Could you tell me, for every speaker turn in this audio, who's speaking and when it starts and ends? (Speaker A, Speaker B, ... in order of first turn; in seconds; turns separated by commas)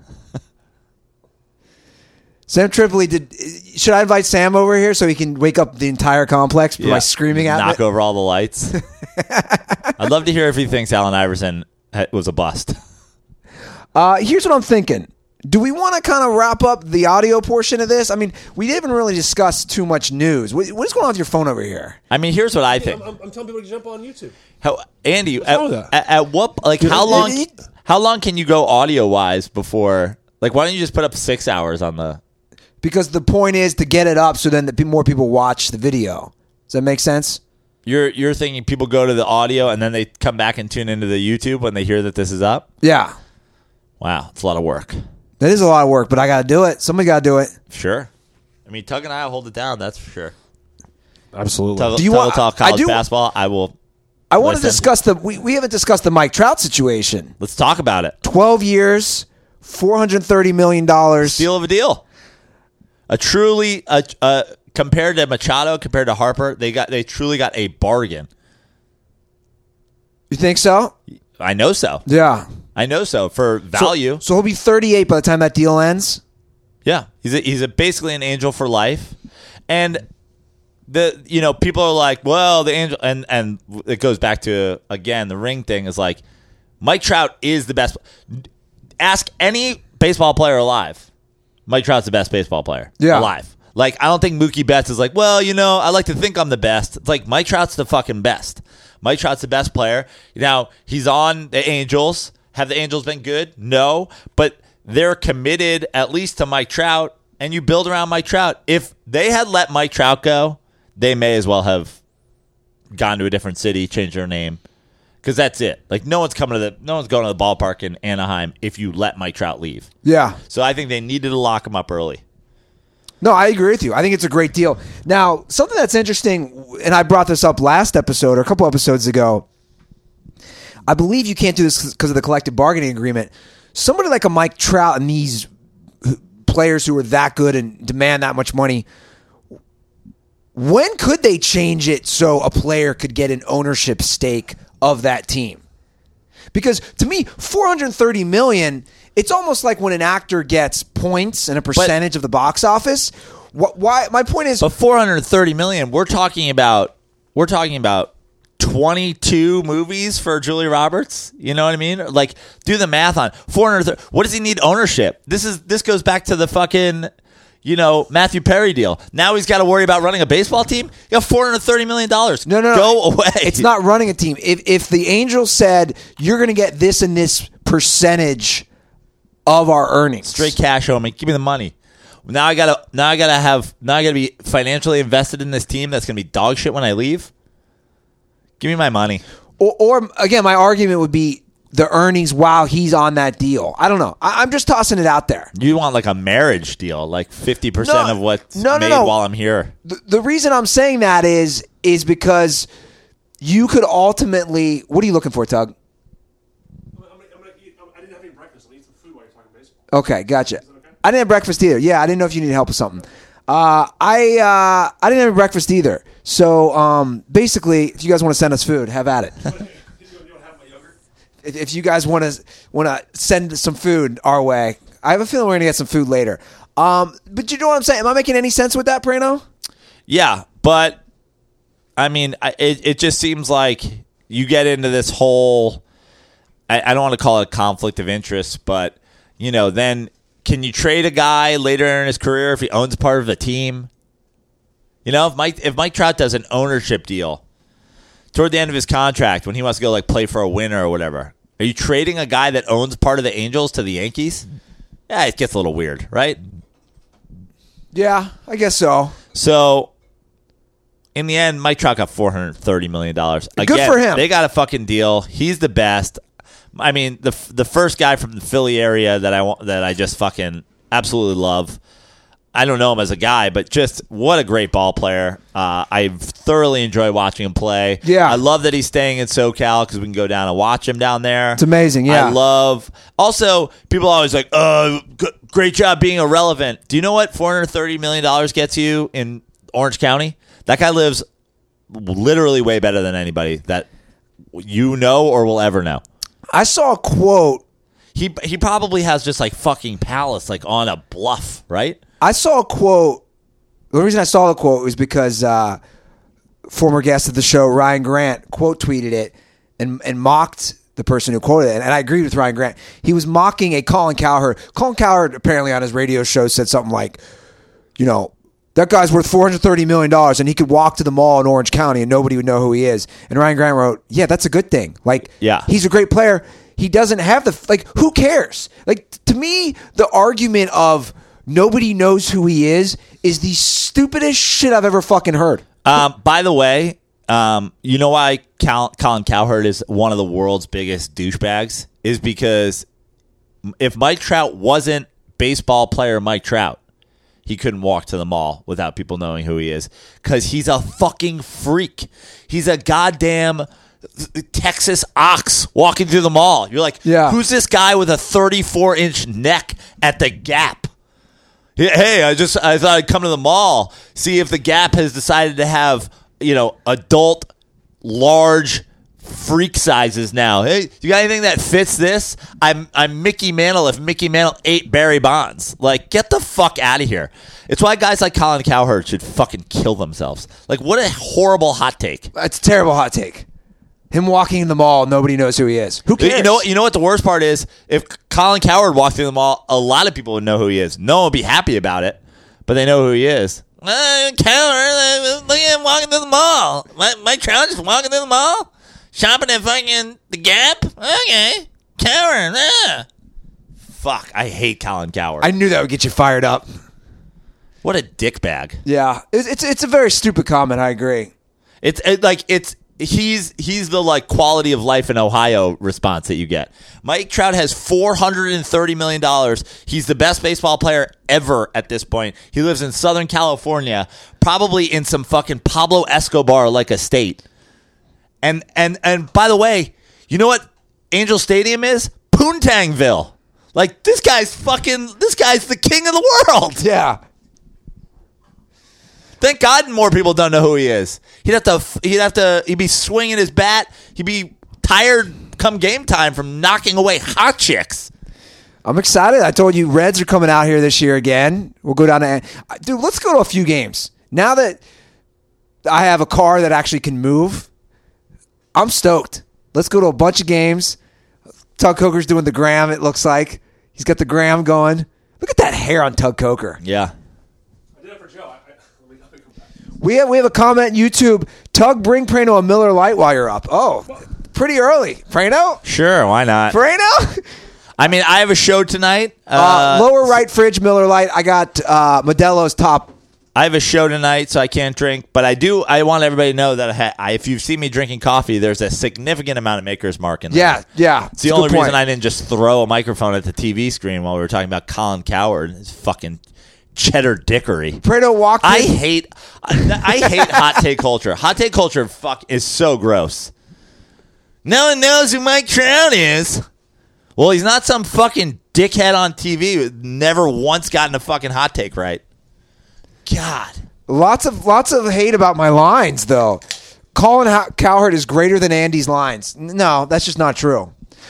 Speaker A: 2.5-7.8, Speaker B: 6.8-8.8, Speaker A: 9.2-9.9, Speaker B: 10.0-12.8, Speaker A: 13.9-22.0, Speaker B: 22.1-23.0, Speaker C: 22.7-24.4, Speaker B: 24.6-32.2, Speaker C: 25.4-25.9, Speaker A: 26.8-27.5, Speaker C: 26.9-27.3, Speaker A: 32.8-37.4, Speaker B: 37.9-42.6, Speaker A: 42.8-43.1, Speaker B: 44.0-45.0, Speaker A: 45.4-47.5, Speaker B: 47.7-48.1, Speaker B: 48.7-50.3, Speaker C: 51.3-52.0, Speaker B: 51.8-53.7, Speaker A: 52.0-53.0, Speaker A: 54.3-57.3, Speaker B: 54.4-54.9, Speaker B: 57.4-58.1, Speaker A: 58.2-61.5, Speaker B: 61.2-62.0, Speaker B: 63.1-68.3, Speaker A: 70.3-70.9, Speaker B: 71.4-72.0, Speaker A: 72.1-72.5, Speaker B: 72.8-74.2, Speaker A: 73.8-76.2, Speaker B: 76.8-79.1, Speaker B: 79.7-80.0, Speaker B: 80.9-86.2, Speaker B: 86.8-88.5, Speaker B: 89.0-91.0, Speaker B: 91.7-112.0, Speaker A: 93.0-93.3, Speaker B: 112.9-114.6, Speaker B: 115.2-119.9, Speaker A: 120.0-120.4, Speaker B: 120.5-122.2, Speaker A: 123.2-129.4, Speaker A: 130.9-135.5, Speaker A: 136.0-138.9, Speaker A: 140.6-145.6, Speaker A: 146.5-154.7, Speaker B: 154.6-167.1, Speaker B: 167.7-173.7, Speaker A: 172.5-178.7, Speaker A: 179.5-180.5, Speaker B: 180.2-181.7, Speaker B: 182.3-187.3, Speaker B: 188.6-189.2, Speaker A: 189.6-195.5, Speaker B: 195.6-199.7, Speaker A: 197.8-199.2, Speaker A: 199.8-202.7, Speaker A: 203.4-205.7, Speaker C: 207.0-209.8, Speaker A: 209.9-219.5, Speaker C: 219.7-220.9, Speaker A: 221.4-229.4, Speaker B: 230.1-231.0, Speaker B: 232.0-235.8, Speaker B: 236.7-243.9, Speaker B: 245.1-247.4, Speaker B: 248.3-254.4, Speaker B: 255.1-256.4, Speaker A: 257.9-259.2, Speaker B: 259.3-259.9, Speaker B: 261.1-266.2, Speaker A: 263.6-264.2, Speaker B: 266.8-271.8, Speaker B: 272.5-291.2, Speaker A: 278.0-278.4, Speaker A: 281.6-282.4, Speaker B: 291.9-293.9, Speaker B: 294.5-296.0, Speaker A: 296.5-297.6, Speaker B: 298.1-302.0, Speaker A: 302.2-303.2, Speaker A: 303.9-305.8, Speaker A: 306.7-317.2, Speaker A: 318.0-335.6, Speaker B: 325.4-325.7, Speaker B: 335.8-342.9, Speaker B: 343.8-346.8, Speaker B: 347.5-353.7, Speaker B: 354.2-360.9, Speaker A: 357.1-357.4, Speaker B: 361.8-367.5, Speaker B: 368.0-382.3, Speaker A: 382.3-383.4, Speaker A: 384.1-386.6, Speaker B: 386.2-403.1, Speaker B: 403.9-405.5, Speaker A: 405.4-406.7, Speaker B: 407.8-408.8, Speaker A: 408.9-411.3, Speaker B: 411.8-427.4, Speaker B: 428.4-436.9, Speaker A: 436.8-437.2, Speaker B: 439.4-448.1, Speaker A: 448.9-454.8, Speaker A: 455.9-457.7, Speaker A: 458.8-461.0, Speaker A: 461.8-466.8, Speaker B: 466.8-467.1, Speaker C: 468.0-469.7, Speaker A: 470.0-475.8, Speaker B: 475.9-476.8, Speaker A: 476.7-477.4, Speaker B: 478.0-480.3, Speaker A: 479.6-483.1, Speaker B: 483.6-490.8, Speaker A: 490.5-492.0, Speaker B: 491.4-496.4, Speaker B: 496.9-498.0, Speaker A: 498.0-498.9, Speaker B: 498.6-503.5, Speaker A: 500.3-500.6, Speaker B: 504.6-506.6, Speaker B: 507.4-512.2, Speaker B: 513.3-513.8, Speaker A: 514.1-516.6, Speaker A: 517.1-520.9